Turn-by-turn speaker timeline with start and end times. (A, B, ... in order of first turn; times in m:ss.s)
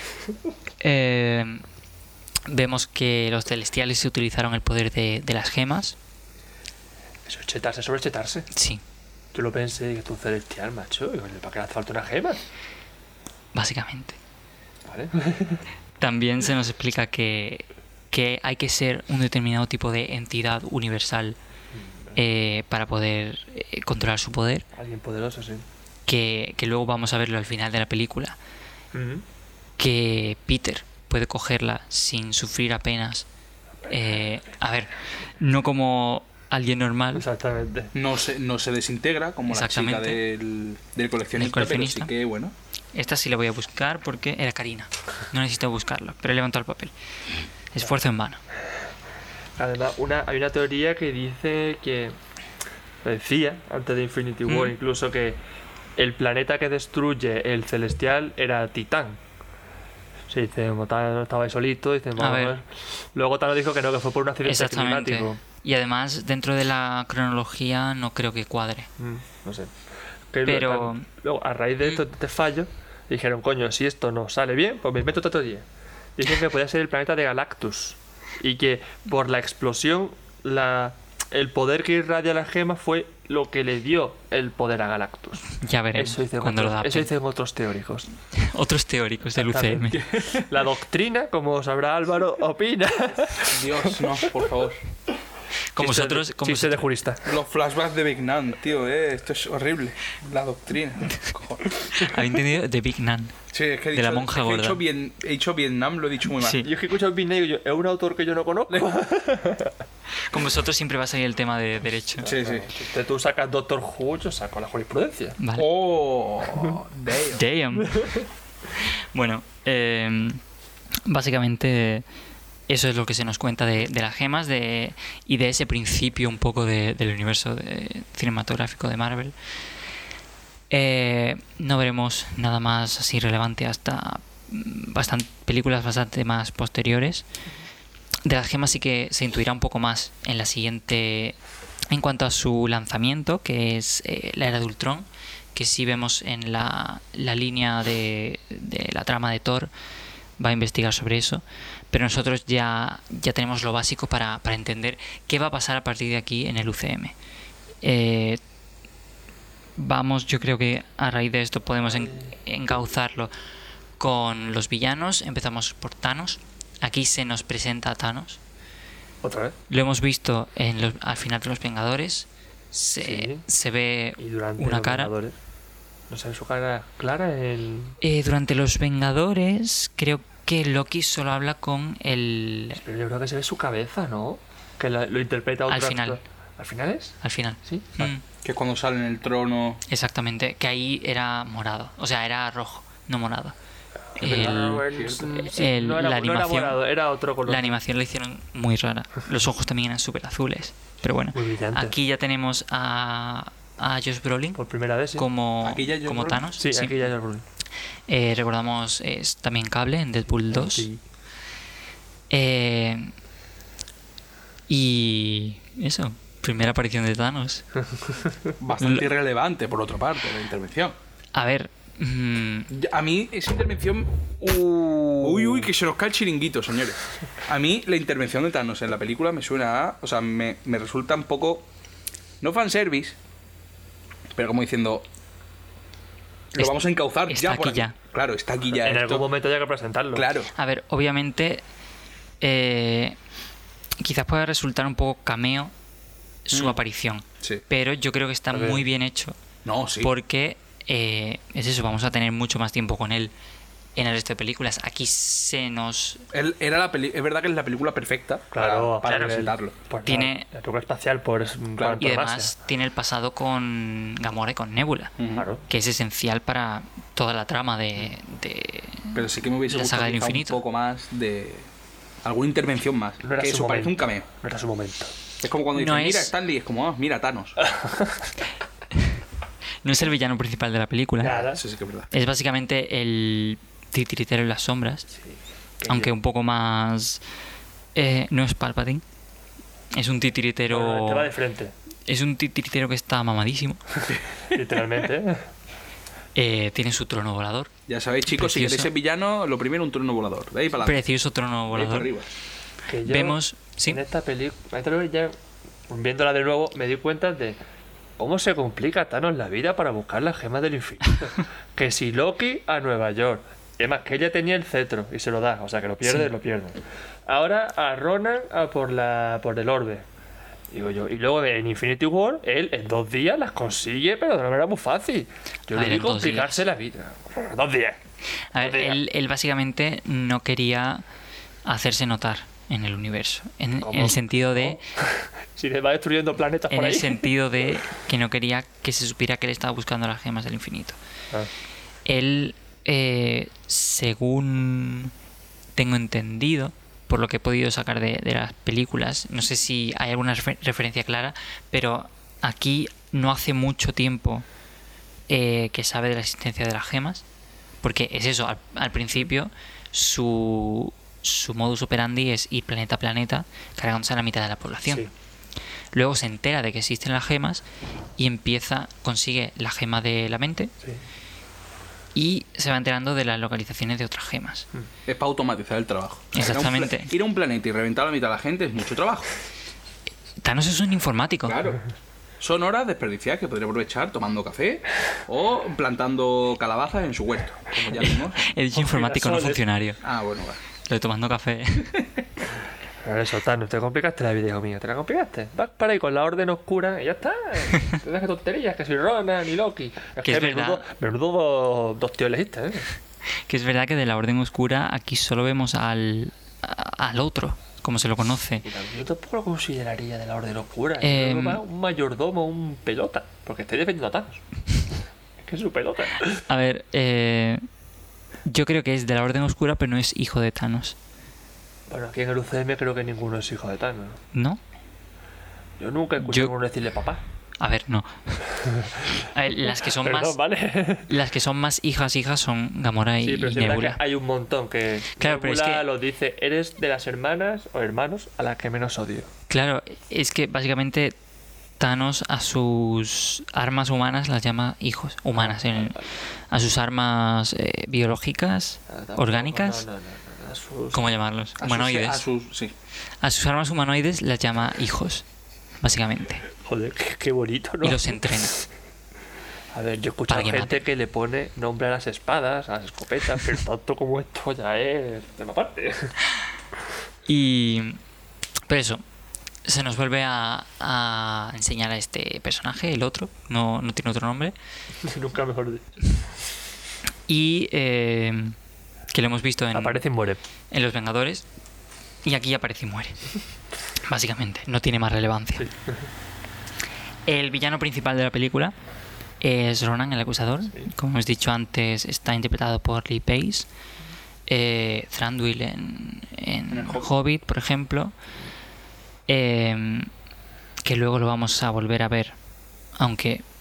0:00.8-0:01.6 A
0:02.5-0:06.0 A
0:07.3-0:08.5 B
0:08.5-0:08.8 A
0:09.3-0:12.4 B
0:13.5-0:14.2 A
0:14.9-0:15.6 B
0:16.0-0:21.4 A
0:21.8-0:22.2 B
0:22.2-0:24.6 A
0:24.8-0:25.6 B
0:26.1-0:28.4 A
0:28.9-0:29.2 B
0:29.8-0:33.3 A
0:33.9-0:37.2 A
0:37.1-0:37.9 B
0:37.9-0:42.5 C
0:39.5-0:40.2 A
0:41.4-0:42.1 A
0:42.9-0:46.9 A
0:47.7-0:48.4 A
0:49.6-0:52.2 B
0:53.0-0:55.4 B
0:54.5-0:54.7 A
0:56.0-0:59.2 B
1:00.3-1:05.4 B
1:02.2-1:02.6 A
1:04.4-1:08.9 A
1:09.0-1:09.7 B
1:10.3-1:15.6 B
1:10.4-1:11.1 A
1:16.2-1:28.1 B
1:25.6-1:27.1 A
1:28.3-1:30.0 A
1:29.4-1:34.3 B
1:30.1-1:30.4 C
1:33.4-1:34.8 C
1:35.8-1:36.9 A
1:35.8-1:37.3 B
1:37.2-1:41.7 C
1:41.9-1:43.4 A
1:43.5-1:46.6 C
1:43.9-1:44.8 A
1:46.4-1:46.7 A
1:46.6-1:49.7 B
1:50.3-1:52.3 A
1:52.2-1:55.4 B
1:52.2-1:52.7 C
1:55.4-1:55.7 A
1:55.6-1:57.4 C
1:57.3-1:58.2 A
1:57.9-1:58.2 B
1:58.7-2:00.4 A
2:01.0-2:02.0 A
2:02.7-2:09.3 A
2:10.7-2:17.3 A
2:18.2-2:21.4 A
2:21.9-2:29.7 A
2:30.4-2:37.1 A
2:37.8-2:38.4 A
2:39.8-2:43.3 A
2:42.0-2:42.3 B
2:44.0-2:48.4 A
2:49.2-2:49.6 B
2:49.7-2:55.1 A
2:53.0-2:53.4 B
2:54.2-2:55.4 B
2:56.1-2:58.0 B
2:58.0-3:02.8 A
3:02.8-3:08.0 B
3:05.7-3:06.2 A
3:07.2-3:08.2 A
3:08.0-3:09.8 C
3:09.9-3:13.6 A
3:14.2-3:14.8 A
3:14.2-3:17.8 B
3:14.2-3:15.5 C
3:15.4-3:16.8 A
3:17.4-3:24.6 A
3:21.3-3:22.0 B
3:24.6-3:25.3 B
3:25.2-3:27.0 A
3:25.6-3:26.4 C
3:26.4-3:27.4 B
3:28.1-3:30.9 A
3:30.5-3:31.0 B
3:32.3-3:33.1 A
3:34.7-3:37.6 A
3:38.6-3:41.0 C
3:38.8-3:39.1 A
3:41.3-3:42.7 A
3:42.7-3:51.7 C
3:45.2-3:45.7 B
3:52.4-3:53.2 C
3:54.4-3:55.0 C
3:56.5-3:59.3 C
3:56.6-3:58.0 A
3:58.8-4:00.3 B
4:00.1-4:00.5 C
4:00.6-4:01.6 A
4:02.4-4:03.2 A
4:04.0-4:05.7 A
4:06.5-4:09.4 A
4:06.5-4:06.8 C
4:08.5-4:08.8 B
4:09.6-4:10.1 C
4:10.0-4:13.3 A
4:14.0-4:16.3 A
4:16.3-4:19.8 C
4:18.5-4:22.5 B
4:20.1-4:20.5 A
4:21.8-4:22.0 C
4:22.0-4:25.1 A
4:25.2-4:25.5 C
4:25.4-4:25.6 B
4:25.7-4:30.6 A
4:29.1-4:31.7 C
4:32.2-4:34.3 C
4:33.2-4:35.1 B
4:35.4-4:37.6 C
4:35.7-4:36.3 A
4:37.6-4:38.3 B
4:39.8-4:41.4 A
4:41.2-4:41.6 B
4:41.4-4:42.1 C
4:42.1-4:45.1 A
4:45.2-4:46.1 B
4:45.9-4:47.2 A
4:48.0-4:49.0 A
4:49.9-4:51.3 A
4:50.7-4:51.7 B
4:52.1-4:53.8 A
4:54.5-4:55.5 B
4:56.4-4:57.7 A
4:57.9-5:01.0 C
4:58.3-4:58.9 A
5:00.8-5:02.1 A
5:01.7-5:02.3 C
5:02.9-5:05.3 B
5:03.0-5:04.0 A
5:05.9-5:07.6 B
5:08.2-5:20.0 B
5:16.0-5:16.3 A
5:20.7-5:28.0 B
5:25.7-5:26.6 A
5:28.5-5:31.0 A
5:28.6-5:29.0 B
5:31.7-5:34.8 A
5:33.8-5:37.3 B
5:36.7-5:41.0 A
5:42.1-5:45.1 A
5:45.8-5:54.4 A
5:55.3-5:57.2 A
5:57.8-6:05.1 A
6:05.9-6:07.6 A
6:08.2-6:10.7 A
6:12.2-6:14.7 A
6:15.1-6:19.3 C
6:16.3-6:17.1 A
6:20.4-6:21.6 A
6:21.5-6:21.8 C
6:22.4-6:28.4 C
6:28.4-6:30.0 A
6:28.8-6:29.6 B
6:30.0-6:30.6 C
6:30.9-6:32.0 A
6:33.0-6:42.9 B
6:40.2-6:40.9 A
6:43.5-6:48.6 A
6:48.6-6:54.4 B
6:51.0-6:51.6 A
6:55.4-6:56.4 B
6:56.5-6:57.6 A
6:58.5-7:01.0 A
7:01.9-7:04.2 B
7:04.3-7:04.6 A
7:05.8-7:07.2 B
7:06.2-7:06.5 A
7:07.6-7:08.4 A
7:08.6-7:11.1 B
7:09.2-7:10.4 A
7:11.1-7:14.0 A
7:13.2-7:19.3 B
7:15.2-7:15.9 A
7:19.5-7:21.1 A
7:21.8-7:26.0 A
7:25.4-7:26.1 B
7:26.5-7:29.8 A
7:28.9-7:31.2 B
7:30.9-7:32.2 A
7:31.6-7:32.7 C
7:33.2-7:35.2 A
7:35.8-7:36.5 A
7:36.6-7:38.6 B
7:37.8-7:38.6 A
7:39.7-7:46.2 B
7:40.3-7:40.8 A
7:47.3-7:48.0 A
7:48.7-7:49.0 A
7:49.7-7:54.6 A
7:55.0-7:56.0 B
7:57.3-7:58.6 A
7:59.1-8:00.0 A
7:59.7-8:00.4 B
8:00.7-8:01.4 A
8:02.2-8:03.3 A
8:04.0-8:05.7 A
8:05.6-8:06.0 B
8:07.3-8:08.7 A
8:09.4-8:13.7 A
8:14.5-8:18.1 A
8:16.7-8:17.1 C
8:19.3-8:20.1 A
8:20.8-8:22.4 A
8:23.0-8:23.4 A